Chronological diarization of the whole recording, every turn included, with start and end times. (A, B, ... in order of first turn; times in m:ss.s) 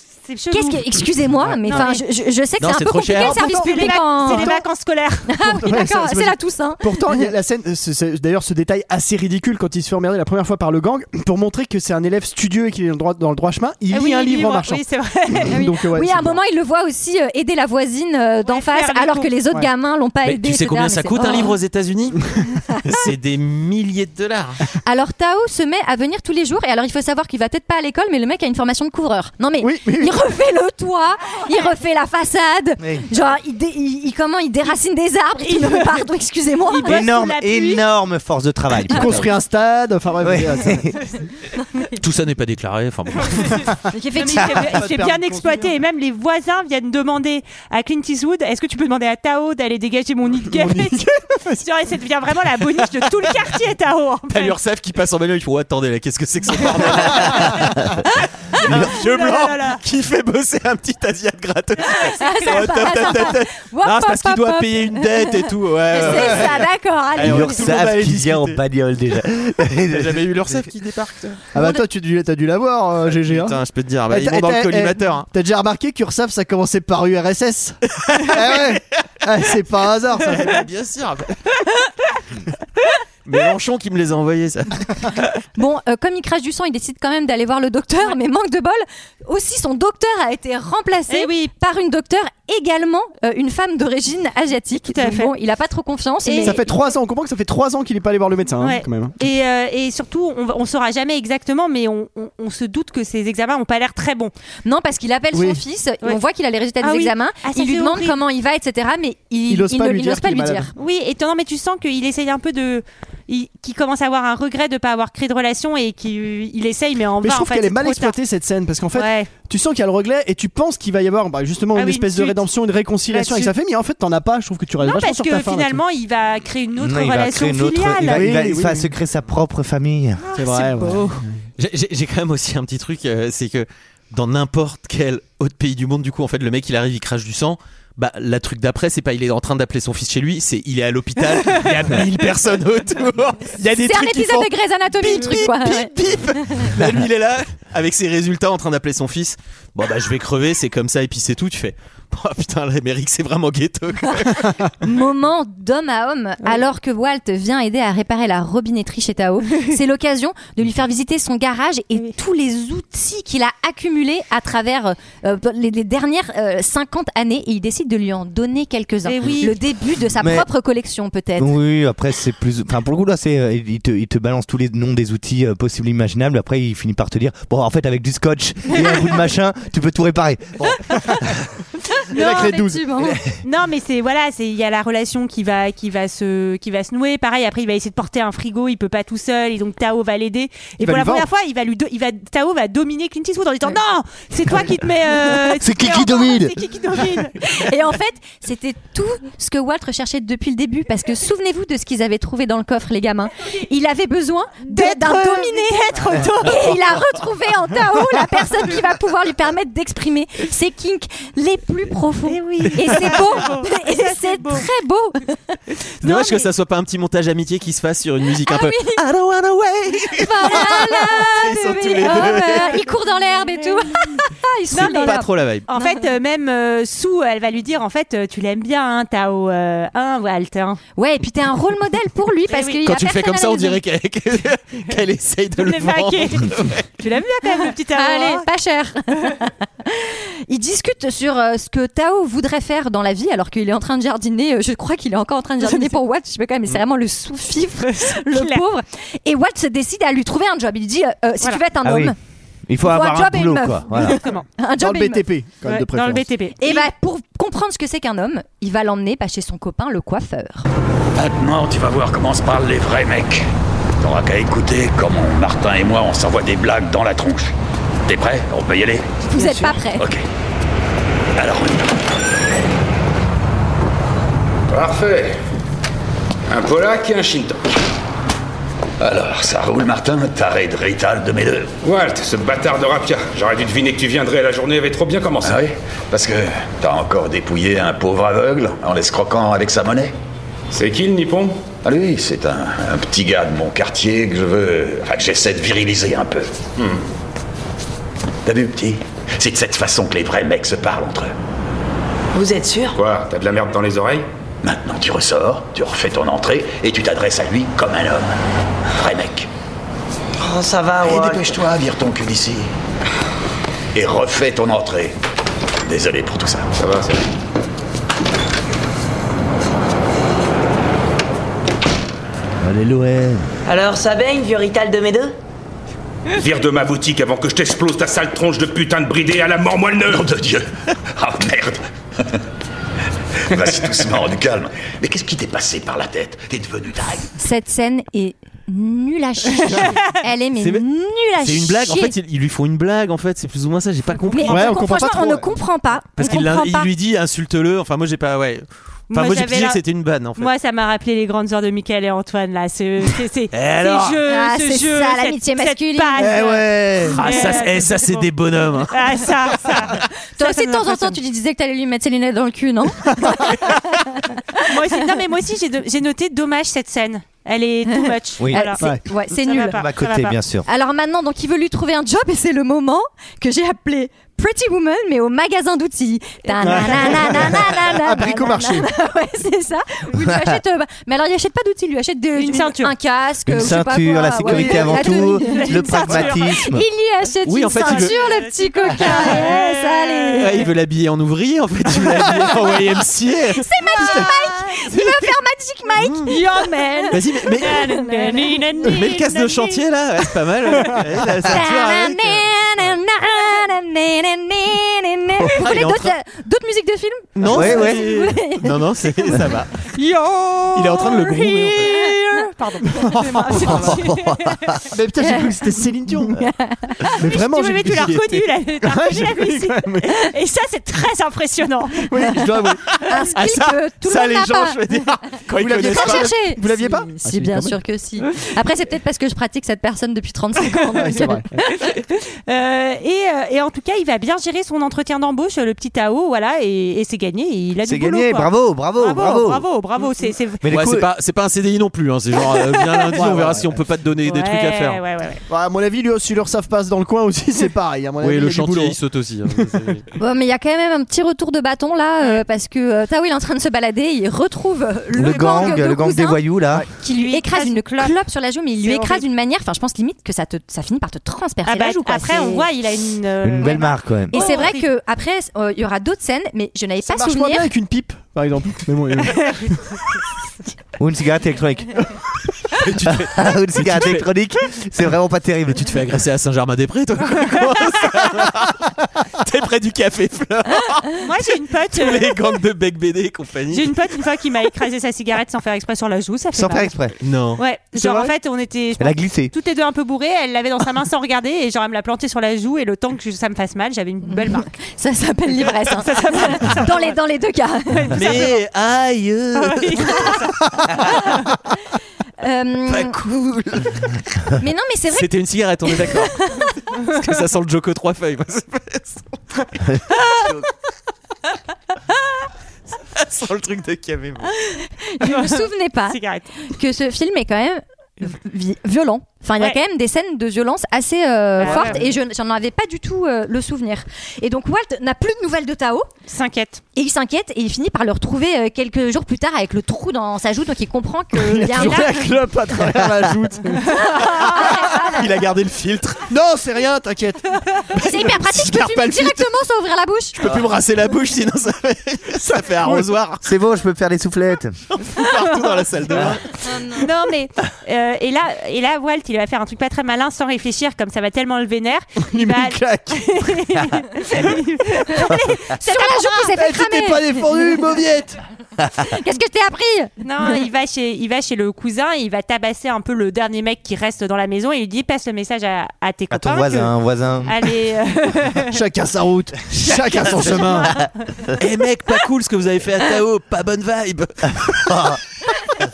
0:00.2-0:01.1 A
0:00.5-0:04.5 B
0:01.6-0:02.0 A
0:02.6-0:03.4 C
0:03.2-0:04.6 D
0:03.2-0:05.3 A
0:05.3-0:07.3 B
0:05.4-0:16.4 D
0:13.9-0:15.6 A
0:15.5-0:21.6 B
0:18.4-0:19.3 A
0:20.2-0:24.6 C
0:24.8-0:37.0 B
0:29.6-0:30.1 D
0:32.8-0:33.1 E
0:35.4-0:36.1 A
0:36.7-0:37.8 A
0:36.8-0:39.3 E
0:38.8-0:40.9 D
0:40.2-0:41.0 E
0:42.0-0:43.6 C
0:43.9-0:44.7 B
0:44.2-0:51.0 A
0:44.3-0:45.8 D
0:50.5-0:51.6 D
0:51.6-0:54.6 A
0:54.3-0:57.9 C
0:58.5-1:08.6 C
0:58.8-0:59.8 A
1:01.8-1:07.7 B
1:02.2-1:03.2 A
1:07.2-1:10.3 E
1:09.9-1:11.4 C
1:11.5-1:13.6 D
1:11.6-1:11.8 B
1:13.2-1:15.3 C
1:14.1-1:20.6 D
1:17.9-1:19.0 C
1:20.3-1:21.3 C
1:23.2-1:25.2 C
1:25.6-1:36.6 B
1:31.1-1:31.5 A
1:34.9-1:35.3 A
1:36.2-1:36.6 A
1:36.4-1:39.2 D
1:38.6-1:44.3 A
1:44.6-1:50.7 B
1:45.3-1:45.6 D
1:46.8-1:48.2 A
1:49.5-1:50.7 D
1:50.8-1:58.2 A
1:57.2-2:05.8 D
1:58.9-1:59.3 A
2:01.7-2:02.4 A
2:03.1-2:03.5 A
2:04.8-2:08.3 A
2:06.8-2:10.2 E
2:08.0-2:08.9 D
2:10.3-2:10.9 A
2:10.4-2:11.3 D
2:11.6-2:34.6 C
2:23.7-2:25.9 B
2:34.8-2:51.6 B
2:49.0-2:49.6 A
2:50.2-2:50.5 E
2:51.4-3:01.4 E
3:02.1-3:03.2 B
3:02.1-3:02.8 D
3:02.2-3:02.5 A
3:03.4-3:17.4 A
3:10.8-3:11.3 D
3:15.6-3:16.5 E
3:17.4-3:35.4 B
3:24.6-3:26.8 A
3:32.2-3:34.6 A
3:36.0-3:42.8 C
3:36.0-3:36.4 B
3:38.4-3:39.0 B
3:40.1-3:46.0 B
3:44.7-3:45.7 C
3:44.7-3:50.8 A
3:51.0-3:53.8 B
3:52.5-3:52.8 A
3:52.8-3:56.9 C
3:55.6-3:58.4 A
3:57.9-4:12.2 B
4:05.6-4:06.0 A
4:07.8-4:08.6 A
4:11.8-4:12.1 E
4:12.7-4:14.2 E
4:12.8-4:15.2 B
4:14.0-4:14.4 A
4:14.8-4:16.3 D
4:15.6-4:16.9 A
4:16.6-4:20.6 B
4:21.1-4:23.5 F
4:24.0-4:27.5 F
4:28.0-4:29.1 F
4:29.3-4:30.0 B
4:29.4-4:29.7 G
4:30.0-4:30.2 F
4:31.4-4:32.0 F
4:34.7-4:35.3 H
4:36.5-4:37.6 H
4:39.0-4:41.7 F
4:41.8-4:45.6 H
4:45.4-4:50.1 F
4:50.7-4:51.6 H
4:51.8-4:56.5 F
4:58.4-5:01.3 F
5:02.3-5:03.0 G
5:02.9-5:04.2 H
5:04.6-5:08.4 F
5:08.9-5:09.5 F
5:10.4-5:11.6 G
5:11.0-5:12.7 F
5:13.9-5:15.1 F
5:15.8-5:16.7 F
5:16.8-5:17.2 H
5:22.6-5:23.4 E
5:23.6-5:25.3 G
5:26.3-5:30.2 H
5:30.0-5:32.4 F
5:33.5-5:37.3 F
5:37.4-5:42.1 B
5:39.8-5:40.1 A
5:40.6-5:40.8 C
5:41.4-5:44.7 C
5:44.3-5:46.9 B
5:44.4-5:45.5 D
5:46.2-5:50.5 C
5:49.1-5:49.8 A
5:50.4-5:58.3 A
5:53.5-5:54.2 C
5:54.3-5:56.3 B
5:56.2-5:57.1 D
5:57.0-5:59.9 C
5:58.9-6:01.2 A
6:00.4-6:04.7 B
6:03.1-6:03.4 D
6:04.6-6:08.9 A
6:07.9-6:09.8 B
6:08.4-6:08.6 E
6:09.4-6:10.3 A
6:09.7-6:10.6 E
6:10.6-6:30.7 B
6:16.6-6:18.9 D
6:20.2-6:20.6 E
6:22.3-6:22.9 A
6:23.4-6:26.8 E
6:24.5-6:26.6 A
6:27.4-6:28.1 C
6:27.7-6:30.7 A
6:30.4-6:33.7 C
6:33.6-6:38.9 B
6:34.0-6:34.3 D
6:36.0-6:36.3 C
6:36.2-6:39.8 A
6:37.1-6:37.9 C
6:38.8-6:42.5 C
6:41.5-6:49.3 B
6:45.5-6:46.1 C
6:47.4-6:49.9 C
6:47.4-6:48.1 E
6:49.9-6:54.8 A
6:50.7-6:51.9 C
6:51.9-6:52.4 B
6:52.8-6:53.9 D
6:53.6-6:54.8 E
6:54.9-6:56.5 D
6:55.2-6:55.5 B
6:56.4-6:57.1 B
6:57.1-7:00.3 D
6:57.1-7:02.3 A
7:02.1-7:02.8 D
7:02.9-7:06.3 C
7:03.0-7:04.8 B
7:05.6-7:07.8 D
7:05.8-7:11.9 B
7:11.0-7:11.5 D
7:11.8-7:20.6 A
7:17.8-7:19.6 E
7:20.6-7:21.1 E
7:20.7-7:25.0 C
7:22.6-7:23.2 A
7:23.1-7:23.8 D
7:24.2-7:25.4 A
7:25.5-7:29.0 D
7:28.2-7:30.0 C
7:30.2-7:36.4 B
7:35.1-7:36.8 E
7:35.2-7:35.8 A
7:37.0-7:38.2 A
7:37.0-7:42.7 B
7:41.6-7:44.9 A
7:43.4-7:44.4 E
7:44.3-7:47.7 B
7:47.0-7:49.9 D
7:49.3-7:49.7 A
7:51.0-7:52.0 E
7:52.8-7:54.3 C
7:53.0-7:56.0 E
7:55.8-8:04.2 C
8:01.2-8:02.4 A
8:03.7-8:06.9 A
8:06.5-8:07.1 E
8:07.2-8:07.6 C
8:07.6-8:14.7 A
8:09.0-8:09.5 E
8:14.3-8:18.5 B
8:15.9-8:17.1 A
8:17.9-8:18.6 A
8:18.1-8:20.4 C
8:19.5-8:20.6 A
8:20.0-8:20.4 B
8:22.4-8:23.2 B
8:22.9-8:23.8 C
8:24.6-8:25.3 B
8:25.1-8:29.3 C
8:25.9-8:26.7 B
8:33.1-8:34.5 C
8:34.6-8:46.1 B
8:35.2-8:36.5 A
8:41.6-8:42.0 A
8:41.6-8:41.9 D
8:46.3-8:46.8 A
8:46.9-8:52.2 B
8:51.3-8:54.7 D
8:51.7-8:52.3 A
8:53.9-8:55.2 B
8:55.0-8:56.2 C
8:56.3-8:59.5 D
8:58.0-9:00.4 B
9:00.4-9:00.7 D
9:00.4-9:03.5 C
9:02.4-9:03.1 D
9:03.4-9:04.8 E
9:04.9-9:06.6 C
9:06.6-9:07.0 B
9:06.9-9:16.5 A
9:12.3-9:13.6 D
9:14.3-9:14.6 D
9:15.7-9:17.6 B
9:16.5-9:18.4 D
9:19.0-9:20.2 B
9:20.2-9:26.9 A
9:26.3-9:27.6 E
9:27.4-9:28.8 A
9:28.7-9:31.0 D
9:29.9-9:31.5 A
9:31.6-9:35.1 C
9:34.8-9:35.2 E